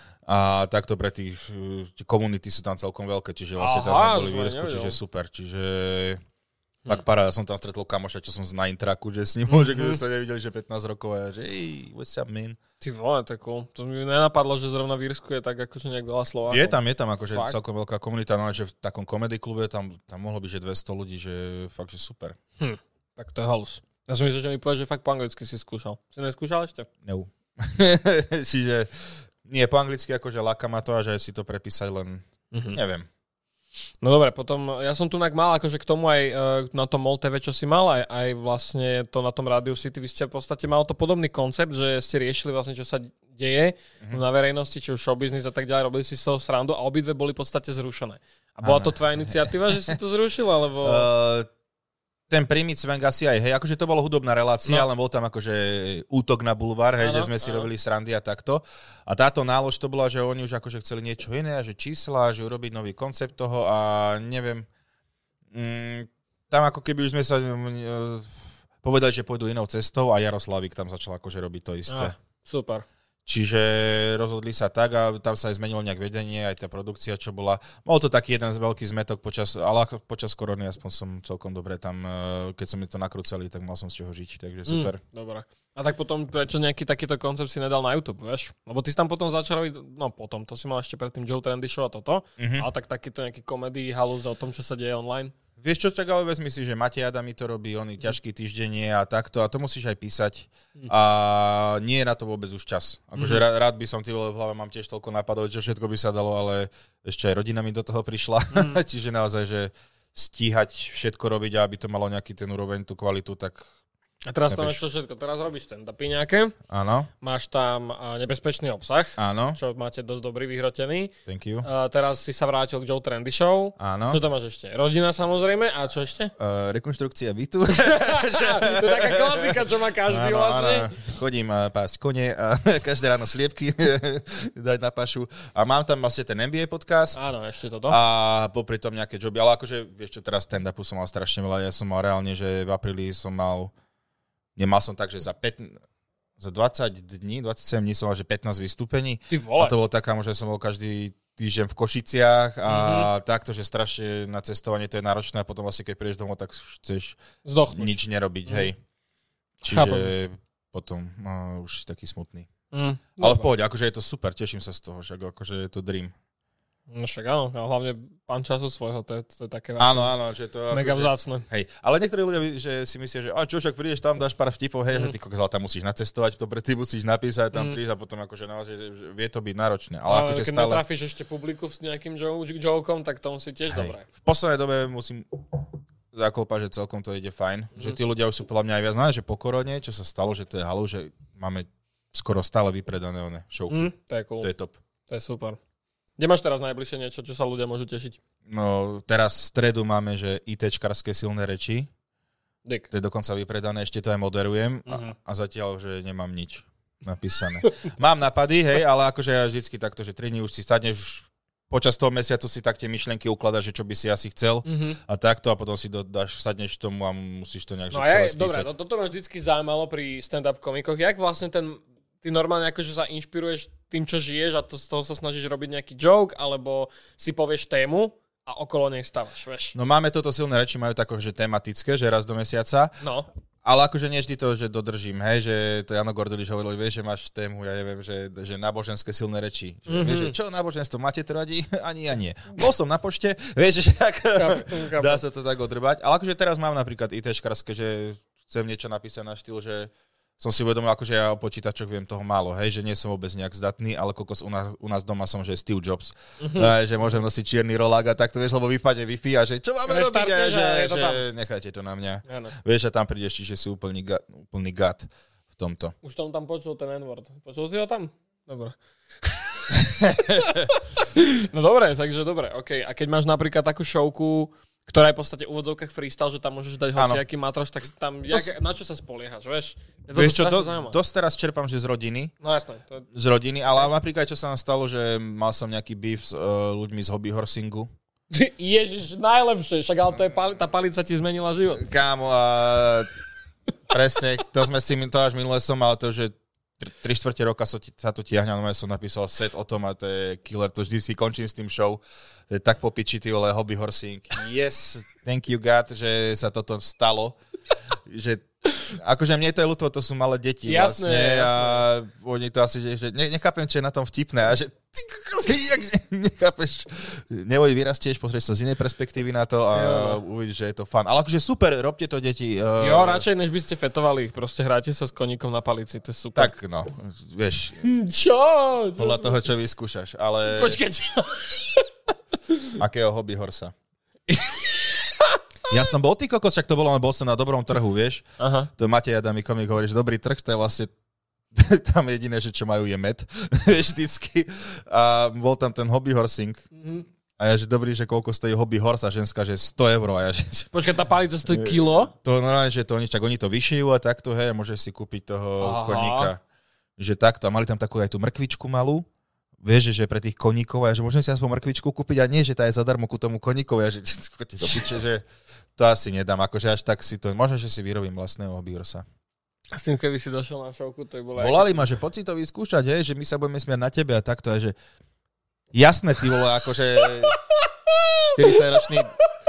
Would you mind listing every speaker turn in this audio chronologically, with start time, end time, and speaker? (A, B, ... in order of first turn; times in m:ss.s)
0:00.2-0:06.2 A
0:03.6-0:05.0 B
0:06.8-0:12.6 A
0:09.5-0:10.0 B
0:12.8-0:16.8 B
0:16.5-0:22.4 A
0:17.3-0:17.6 B
0:22.6-0:26.9 B
0:27.0-0:33.1 A
0:32.5-0:32.8 B
0:34.0-0:51.1 B
0:48.6-0:50.0 A
0:50.8-0:51.5 A
0:52.3-1:04.7 A
0:57.0-0:57.7 B
1:05.5-1:12.1 A
1:11.9-1:12.8 B
1:13.2-1:25.0 A
1:24.6-1:35.3 B
1:32.4-1:32.7 A
1:35.6-1:53.7 A
1:43.2-1:43.4 B
1:48.5-1:48.8 B
1:54.2-1:56.6 B
1:54.5-1:54.8 A
1:56.7-1:57.1 A
1:57.2-2:06.3 B
1:59.2-1:59.6 A
2:01.2-2:01.7 A
2:03.8-2:04.2 A
2:06.4-2:17.2 A
2:07.8-2:11.0 B
2:17.1-2:18.0 B
2:17.9-2:23.7 A
2:24.6-2:25.8 A
2:26.4-2:37.2 A
2:29.3-2:29.8 B
2:32.7-2:33.1 B
2:37.4-2:38.7 B
2:37.7-2:38.8 A
2:39.6-2:42.5 A
2:39.7-2:40.1 B
2:42.7-2:43.5 B
2:43.2-2:46.1 A
2:46.9-2:50.1 B
2:49.8-3:00.8 A
2:50.7-2:51.4 B
2:57.5-2:57.8 B
3:00.1-3:04.1 B
3:03.7-3:05.4 A
3:06.1-3:14.8 A
3:13.7-3:14.5 B
3:15.1-3:15.6 B
3:16.2-3:18.2 B
3:18.5-3:21.9 A
3:22.9-3:38.7 A
3:24.9-3:25.1 B
3:34.6-3:35.0 B
3:37.9-3:49.7 B
3:49.7-3:53.0 A
3:53.0-3:53.3 B
3:53.6-4:26.0 A
3:59.9-4:00.4 B
4:04.3-4:05.2 B
4:16.4-4:16.7 B
4:19.8-4:21.2 B
4:22.2-4:22.5 B
4:26.0-4:41.0 B
4:29.8-4:30.7 A
4:37.0-4:37.2 A
4:40.1-4:42.3 A
4:42.4-4:43.1 B
4:43.1-4:47.9 A
4:48.3-4:51.8 B
4:51.8-4:53.1 A
4:53.9-5:07.4 A
5:08.1-5:23.2 A
5:10.6-5:11.8 B
5:19.7-5:20.2 B
5:22.8-5:26.5 B
5:26.3-5:27.9 A
5:27.8-5:29.4 B
5:29.0-5:30.8 A
5:30.5-5:31.8 B
5:32.8-5:33.7 A
5:34.3-5:35.4 B
5:35.7-5:40.9 A
5:38.4-5:38.7 B
5:41.5-5:46.7 A
5:46.7-5:47.0 B
5:47.4-5:50.7 A
5:50.7-5:52.1 B
5:51.5-5:56.4 A
5:55.6-5:56.3 B
5:57.0-5:59.1 A
5:59.6-6:09.0 A
6:09.7-6:11.8 B
6:11.4-6:14.8 A
6:15.7-6:17.4 A
6:17.9-6:18.6 B
6:18.2-6:19.1 A